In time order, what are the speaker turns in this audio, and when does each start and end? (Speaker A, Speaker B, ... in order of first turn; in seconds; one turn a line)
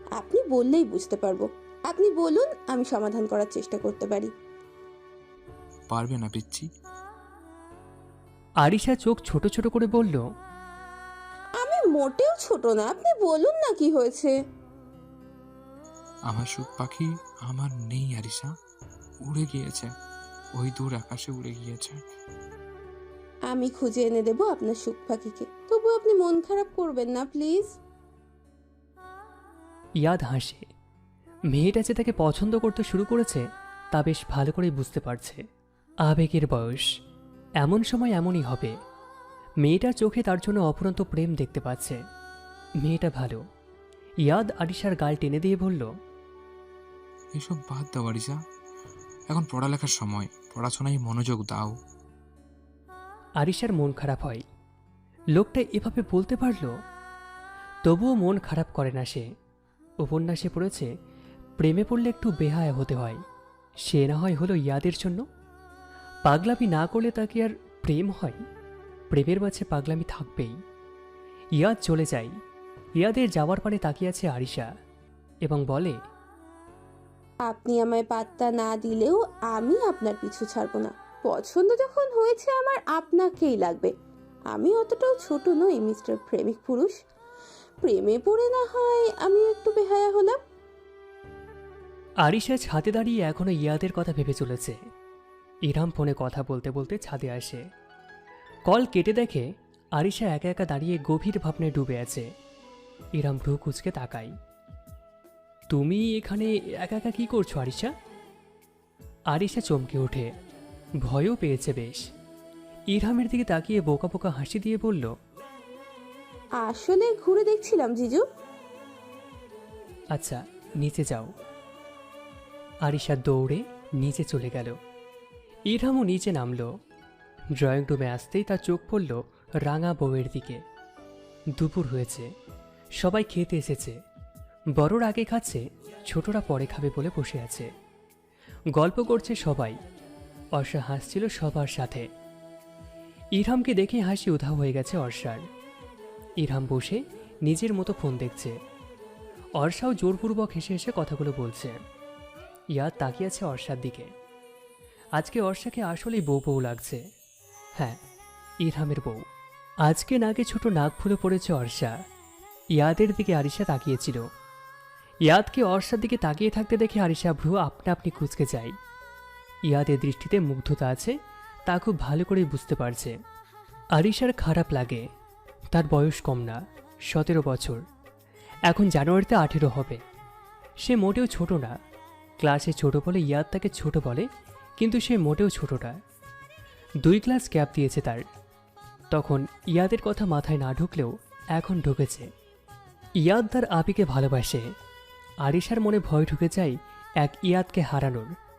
Speaker A: 0.1-4.3
Speaker B: 5.9-6.7
Speaker C: 8.6-10.2
Speaker A: 11.6-14.3
Speaker B: 16.3-18.5
Speaker B: 19.2-19.9
Speaker B: 20.5-22.0
Speaker A: 23.5-27.7
Speaker C: 30.0-30.6
Speaker C: 31.5-35.4
Speaker C: 36.0-36.8
Speaker C: 37.6-38.7
Speaker C: 39.6-42.0
Speaker C: 42.8-43.4
Speaker C: 44.2-45.9
Speaker B: 47.4-48.4
Speaker B: 49.3-51.7
Speaker C: 53.4-54.4
Speaker C: 55.4-56.7
Speaker C: 57.9-59.2
Speaker C: 60.0-60.9
Speaker C: 61.6-63.2
Speaker C: 63.8-65.2
Speaker C: 66.2-68.4
Speaker C: 69.1-70.5
Speaker C: 71.6-72.3
Speaker C: 73.0-74.7
Speaker C: 75.5-76.0
Speaker A: 77.4-83.9
Speaker A: 84.5-86.9
Speaker A: 87.8-90.4
Speaker C: 92.2-94.8
Speaker C: 95.7-97.6
Speaker C: 98.7-102.3
Speaker C: 103.2-104.3
Speaker C: 105.7-107.9
Speaker C: 109.3-110.3
Speaker C: 111.0-112.0
Speaker C: 112.9-115.1
Speaker A: 116.6-118.2
Speaker C: 120.1-121.3
Speaker C: 122.8-124.7
Speaker C: 125.7-126.7
Speaker C: 127.6-130.6
Speaker C: 131.6-132.3
Speaker C: 133.0-134.0
Speaker C: 134.8-137.7
Speaker C: 138.7-139.8
Speaker C: 140.5-142.0
Speaker C: 143.3-145.4
Speaker C: 146.4-148.6
Speaker C: 149.6-151.7
Speaker C: 152.7-154.1
Speaker C: 155.2-157.0
Speaker C: 158.6-159.2
Speaker C: 159.8-161.9
Speaker C: 162.8-164.2
Speaker C: 165.3-168.7
Speaker C: 169.7-171.1
Speaker C: 171.7-173.1
Speaker C: 174.0-175.0
Speaker C: 175.7-176.6
Speaker C: 177.1-177.8
Speaker C: 178.7-180.0
Speaker C: 180.8-181.7
Speaker C: 182.4-184.2
Speaker C: 184.8-186.0
Speaker C: 187.0-188.2
Speaker C: 189.1-192.3
Speaker C: 193.2-194.7
Speaker C: 195.4-198.3